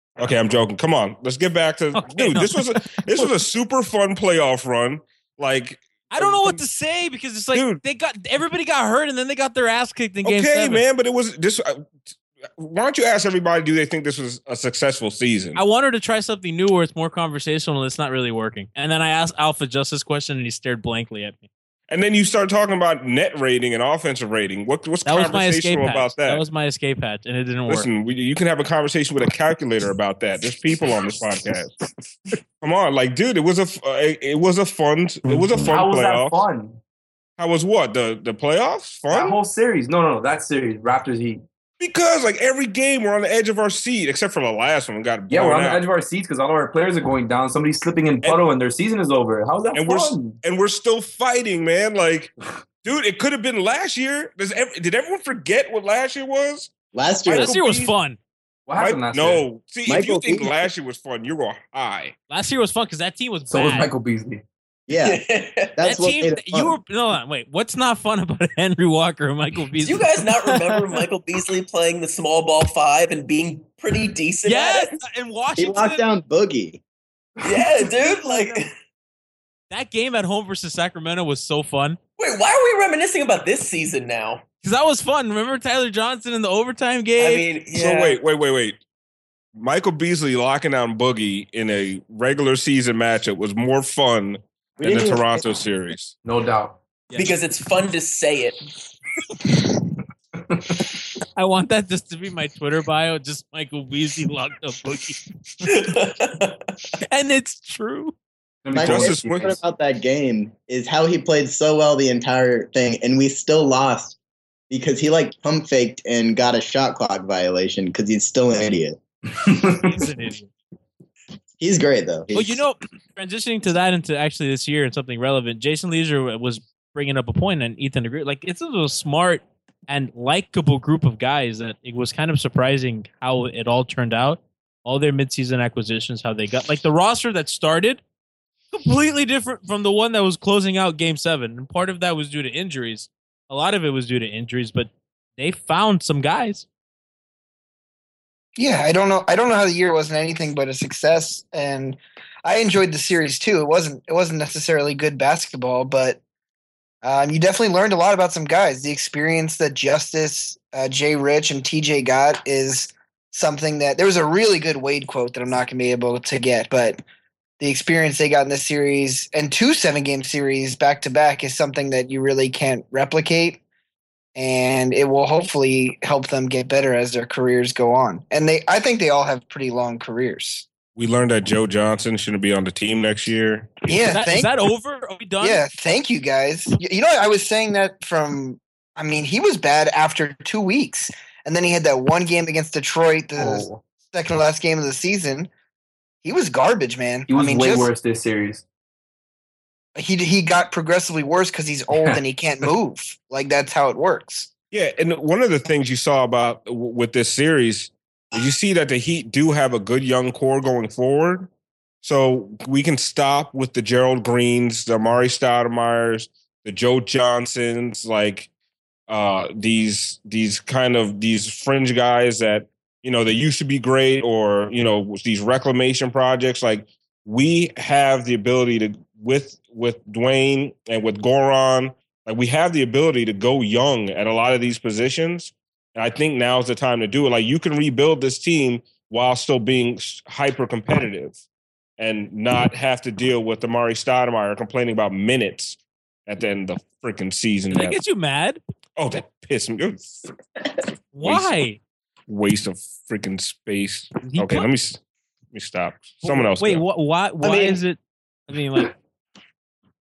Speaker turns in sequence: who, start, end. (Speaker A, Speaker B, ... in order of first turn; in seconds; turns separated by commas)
Speaker A: 0.2-6.6, Speaker B: 1.9-3.3, Speaker B: 6.1-10.8, Speaker A: 7.5-7.8, Speaker A: 10.2-15.6, Speaker B: 15.5-21.5, Speaker A: 21.9-26.4, Speaker B: 25.0-27.9, Speaker A: 27.7-31.7, Speaker A: 32.6-36.4, Speaker C: 35.2-36.8, Speaker A: 37.4-39.4, Speaker C: 39.1-41.4, Speaker A: 41.8-45.8, Speaker C: 45.3-50.4, Speaker A: 49.7-52.3, Speaker A: 52.8-56.7, Speaker D: 56.9-57.5, Speaker B: 57.3-58.2, Speaker A: 57.3-57.9, Speaker C: 58.7-59.5, Speaker A: 58.8-62.1, Speaker D: 59.9-60.6, Speaker B: 62.3-63.9, Speaker C: 63.5-64.4, Speaker D: 64.9-65.2, Speaker E: 64.9-65.7, Speaker D: 65.8-66.8, Speaker B: 65.8-70.1, Speaker E: 69.8-75.0, Speaker B: 74.4-76.0, Speaker D: 75.6-76.8, Speaker E: 77.4-78.7, Speaker B: 78.0-78.6, Speaker B: 79.7-82.0, Speaker E: 82.2-84.4, Speaker B: 84.6-87.4, Speaker E: 87.2-88.2, Speaker A: 87.7-88.8, Speaker A: 89.5-96.2, Speaker C: 94.8-95.4, Speaker C: 96.2-96.8, Speaker E: 97.2-98.6, Speaker C: 100.5-100.8, Speaker B: 101.3-105.2, Speaker E: 105.7-106.6, Speaker B: 107.1-108.1, Speaker C: 108.6-109.5, Speaker D: 108.7-114.2, Speaker A: 108.8-109.5, Speaker D: 114.7-119.0, Speaker C: 119.4-119.8, Speaker B: 119.7-120.5, Speaker D: 121.6-122.6, Speaker B: 122.3-138.0, Speaker B: 138.7-146.7, Speaker F: 148.6-156.2, Speaker F: 157.0-167.0, Speaker F: 167.6-173.6, Speaker F: 174.4-180.7, Speaker A: 180.9-183.8, Speaker F: 183.9-184.5, Speaker B: 183.9-185.6, Speaker F: 185.4-195.5, Speaker C: 193.4-193.8, Speaker F: 196.2-197.9, Speaker C: 197.3-198.6, Speaker F: 199.9-204.5, Speaker A: 204.7-211.5, Speaker A: 212.0-218.5, Speaker A: 219.1-241.4, Speaker A: 242.0-248.0, Speaker B: 247.7-248.6, Speaker A: 248.9-250.3, Speaker B: 251.1-251.8, Speaker A: 251.2-251.5, Speaker A: 252.3-255.0, Speaker B: 254.2-254.7, Speaker A: 255.5-256.8, Speaker B: 256.2-258.9, Speaker E: 257.4-257.8